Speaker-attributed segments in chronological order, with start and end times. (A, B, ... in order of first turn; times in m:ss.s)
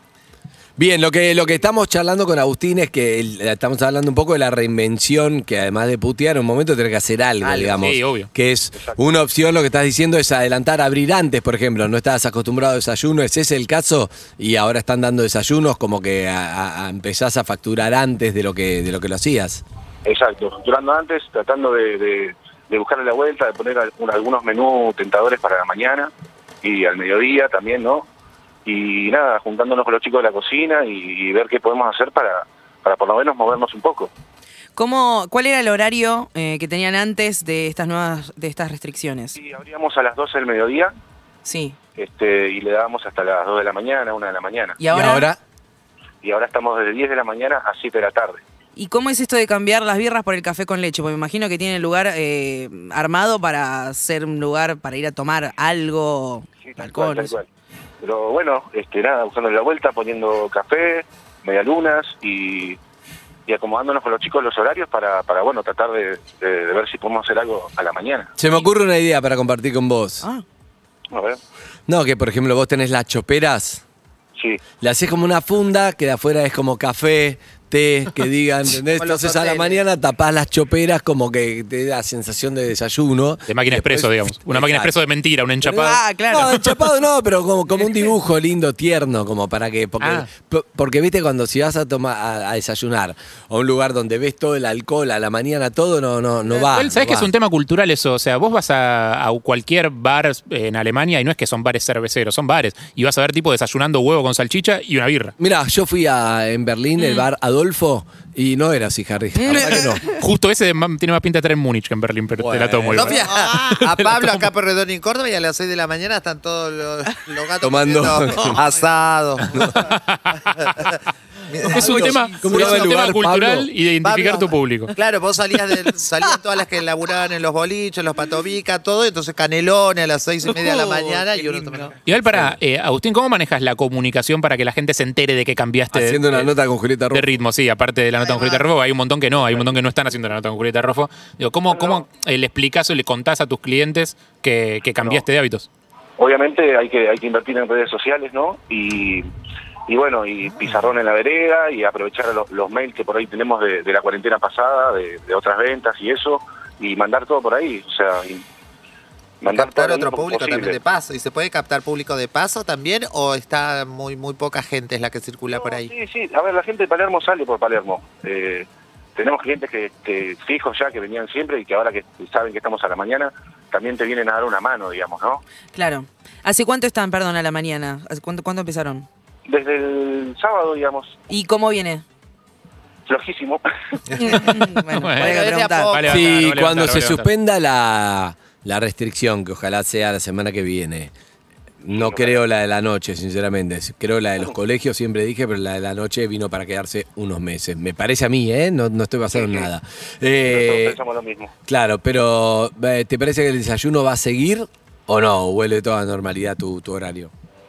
0:00.8-0:19.6 A
0:07.4-0:07.9 B
0:07.8-0:08.3 C
0:08.7-0:09.0 D
0:20.0-0:26.1 D
0:26.6-0:28.1 D
0:28.6-0:34.1 D
0:34.8-0:39.4 E
0:39.4-0:40.9 D
0:41.4-0:41.8 E
0:42.0-0:44.8 D
0:44.8-0:45.3 E
0:44.9-0:45.4 A
0:46.2-0:48.4 D
0:48.8-0:57.3 E
0:56.6-0:57.4 D
0:58.0-1:02.8 D
1:03.5-1:08.3 D
1:08.4-1:10.2 A
1:11.1-1:11.4 D
1:11.9-1:13.8 A
1:14.4-1:14.6 D
1:14.8-1:25.0 A
1:18.9-1:19.8 B
1:23.5-1:26.6 C
1:25.6-1:37.3 A
1:25.8-1:26.6 E
1:30.0-1:30.3 C
1:36.7-1:45.3 C
1:45.4-1:50.0 A
1:47.0-1:47.2 E
1:49.4-1:50.2 E
1:49.5-1:54.4 C
1:52.4-1:53.2 A
1:52.9-1:59.9 B
1:57.6-1:58.6 A
1:59.5-2:00.7 C
2:00.4-2:01.0 B
2:01.5-2:03.0 B
2:01.7-2:04.9 C
2:01.8-2:03.7 A
2:02.2-2:02.6 E
2:04.0-2:12.0 B
2:05.8-2:06.3 E
2:10.5-2:11.9 E
2:12.0-2:16.5 C
2:12.2-2:12.6 A
2:15.9-2:17.3 A
2:17.1-2:25.7 C
2:18.2-2:18.7 B
2:21.7-2:22.0 D
2:25.0-2:25.2 D
2:26.2-2:29.3 D
2:29.9-2:38.4 D
2:39.4-2:40.8 D
2:39.4-2:45.9 B
2:45.5-2:55.4 D
2:55.7-2:59.1 E
2:59.5-3:01.2 D
3:01.3-3:02.0 E
3:03.1-3:04.6 D
3:04.2-3:06.0 E
3:04.9-3:07.3 C
3:05.2-3:06.2 B
3:06.0-3:11.1 A
3:11.8-3:21.0 A
3:11.9-3:12.4 D
3:19.3-3:19.7 D
3:20.4-3:21.5 D
3:21.7-3:27.3 A